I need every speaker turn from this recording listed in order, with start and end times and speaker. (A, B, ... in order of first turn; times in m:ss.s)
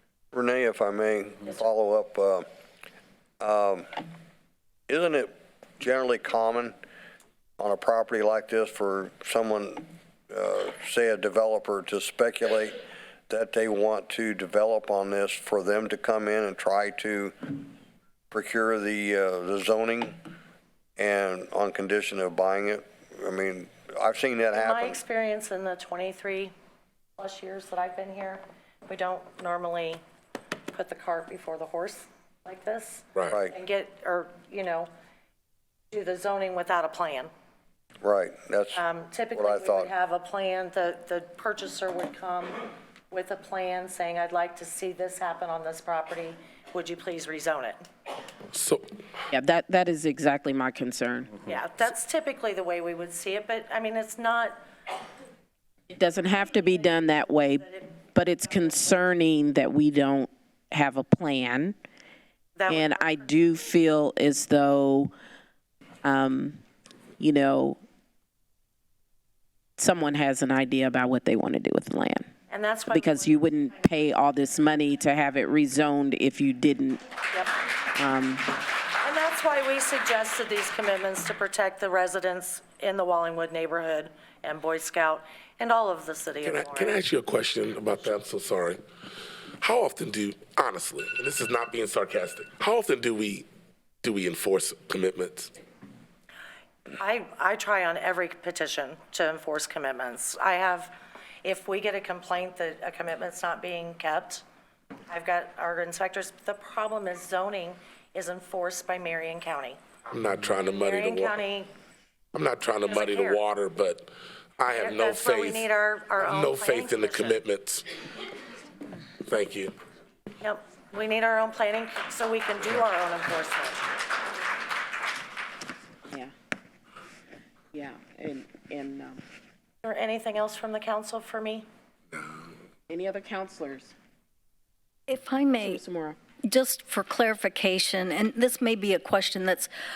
0:00.3-0:02.4 A
0:03.4-0:04.0 A
0:04.9-0:06.7 A
0:07.6-0:12.8 A
0:13.3-0:17.6 A
0:18.3-0:20.2 A
0:21.0-0:25.0 A
0:24.5-0:26.5 B
0:27.2-0:30.0 B
0:30.7-0:34.9 B
0:33.3-0:33.5 A
0:35.9-0:37.3 B
0:38.0-0:38.8 A
0:38.7-0:47.8 B
0:39.3-0:39.9 A
0:48.5-0:48.9 C
0:49.3-0:51.4 D
0:51.4-0:54.6 B
0:55.9-1:01.8 D
0:57.6-0:57.9 B
0:58.6-0:59.0 B
1:02.6-1:03.6 B
1:02.7-1:05.1 D
1:06.0-1:06.6 D
1:07.2-1:07.8 D
1:09.8-1:12.3 D
1:12.5-1:13.4 B
1:12.9-1:17.0 D
1:18.0-1:18.4 D
1:19.0-1:27.0 B
1:26.4-1:28.8 C
1:29.6-1:33.4 C
1:34.0-1:35.5 C
1:37.0-1:44.4 B
1:45.1-1:49.8 B
1:50.1-1:51.4 C
1:50.8-1:51.7 B
1:52.3-1:55.6 C
1:52.9-1:53.4 B
1:54.7-1:57.4 B
1:56.2-1:57.8 C
1:59.2-1:59.7 C
2:00.4-2:03.8 B
2:06.1-2:06.3 D
2:07.7-2:09.2 D
2:09.8-2:11.6 B
2:12.1-2:12.4 C
2:12.9-2:13.9 D
2:15.1-2:15.8 E
2:15.5-2:16.2 D
2:16.4-2:19.7 E